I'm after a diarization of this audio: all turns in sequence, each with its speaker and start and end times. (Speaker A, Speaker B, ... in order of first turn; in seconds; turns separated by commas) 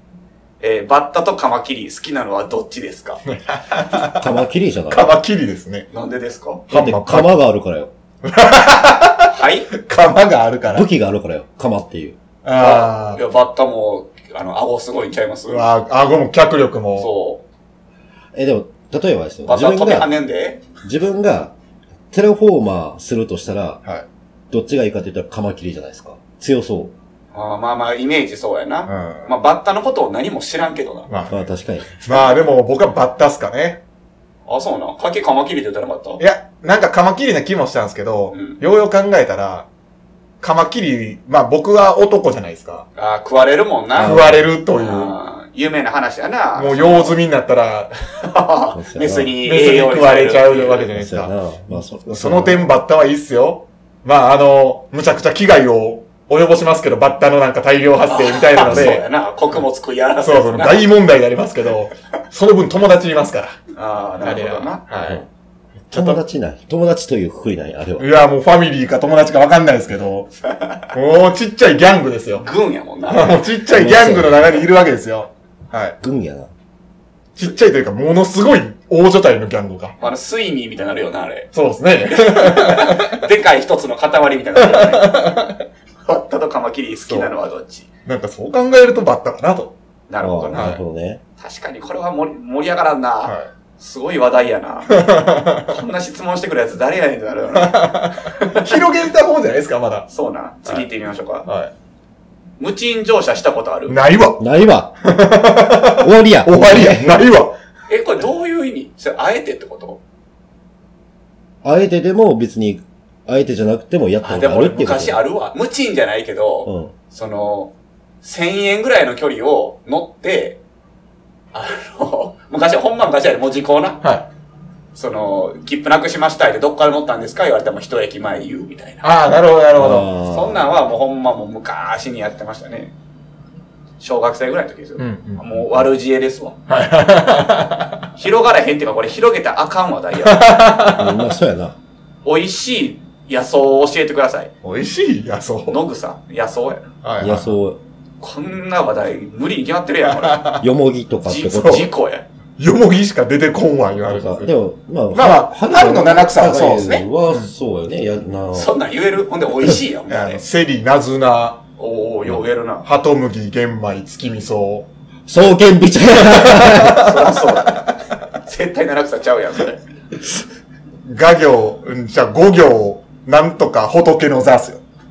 Speaker A: 0.6-3.2, Speaker B: 3.3-4.3, Speaker C: 4.1-5.1, Speaker B: 4.9-5.9, Speaker A: 5.9-6.6, Speaker B: 6.7-7.4, Speaker C: 6.7-7.9, Speaker B: 8.2-10.9, Speaker A: 9.3-9.7, Speaker C: 10.7-12.2, Speaker B: 12.4-13.2, Speaker A: 12.6-15.7, Speaker B: 15.5-17.1, Speaker A: 16.9-17.4, Speaker C: 18.3-20.2, Speaker A: 19.5-20.6, Speaker C: 20.8-21.6, Speaker C: 22.1-23.8, Speaker C: 24.5-26.9, Speaker A: 27.3-31.1, Speaker B: 28.9-29.3, Speaker B: 31.1-31.4, Speaker C: 31.3-31.9, Speaker B: 32.0-33.8, Speaker A: 34.5-36.2, Speaker B: 36.2-39.7, Speaker A: 38.3-38.6, Speaker B: 40.4-42.9, Speaker A: 43.0-47.2, Speaker C: 44.0-44.5, Speaker B: 44.0-45.1, Speaker B: 46.6-47.9, Speaker A: 48.2-50.9, Speaker C: 48.7-49.4, Speaker B: 49.4-59.0, Speaker C: 50.9-52.7, Speaker A: 58.1-60.9, Speaker C: 58.6-58.9, Speaker B: 60.2-63.6, Speaker A: 63.8-64.8, Speaker B: 64.2-65.2, Speaker B: 65.9-66.2, Speaker C: 65.9-68.2, Speaker B: 68.0-70.3, Speaker A: 70.5-70.8, Speaker B: 70.9-72.5, Speaker A: 72.4-73.4, Speaker B: 73.1-76.0, Speaker C: 73.7-74.6, Speaker C: 76.0-76.5, Speaker B: 77.4-80.0, Speaker A: 80.0-81.5, Speaker B: 81.5-83.2, Speaker A: 82.1-85.3, Speaker B: 84.6-85.6, Speaker A: 86.1-87.9, Speaker B: 88.1-89.8, Speaker A: 90.1-90.7, Speaker C: 90.2-91.2, Speaker B: 90.5-90.8, Speaker A: 91.4-98.8, Speaker B: 94.9-95.7, Speaker B: 97.5-100.1, Speaker A: 100.1-101.5, Speaker B: 101.5-101.7, Speaker A: 102.6-104.0, Speaker B: 103.9-104.4, Speaker C: 104.4-104.9, Speaker B: 105.0-107.6, Speaker C: 105.9-107.2, Speaker A: 107.9-110.0, Speaker C: 111.6-115.2, Speaker A: 114.2-120.6, Speaker C: 116.7-116.9, Speaker A: 121.5-124.0, Speaker A: 125.0-129.1, Speaker B: 129.0-130.1, Speaker C: 129.8-130.7, Speaker A: 130.3-132.9, Speaker A: 134.0-136.6, Speaker B: 135.0-135.4, Speaker B: 136.7-138.1, Speaker A: 138.2-140.6, Speaker B: 140.2-141.3, Speaker C: 140.9-141.8, Speaker A: 142.2-144.5, Speaker B: 144.6-145.8, Speaker A: 145.7-146.8, Speaker B: 147.0-147.5, Speaker C: 147.2-147.8, Speaker A: 148.2-150.6, Speaker B: 150.1-150.7, Speaker C: 150.6-151.9, Speaker A: 151.3-152.3, Speaker B: 151.6-151.9, Speaker B: 152.6-154.5, Speaker C: 154.0-158.8, Speaker B: 155.1-157.5, Speaker A: 158.5-160.4, Speaker B: 160.1-161.6, Speaker A: 161.8-162.9, Speaker B: 162.8-164.9, Speaker C: 165.3-167.2, Speaker B: 166.1-167.3, Speaker A: 166.8-169.8, Speaker B: 171.0-174.8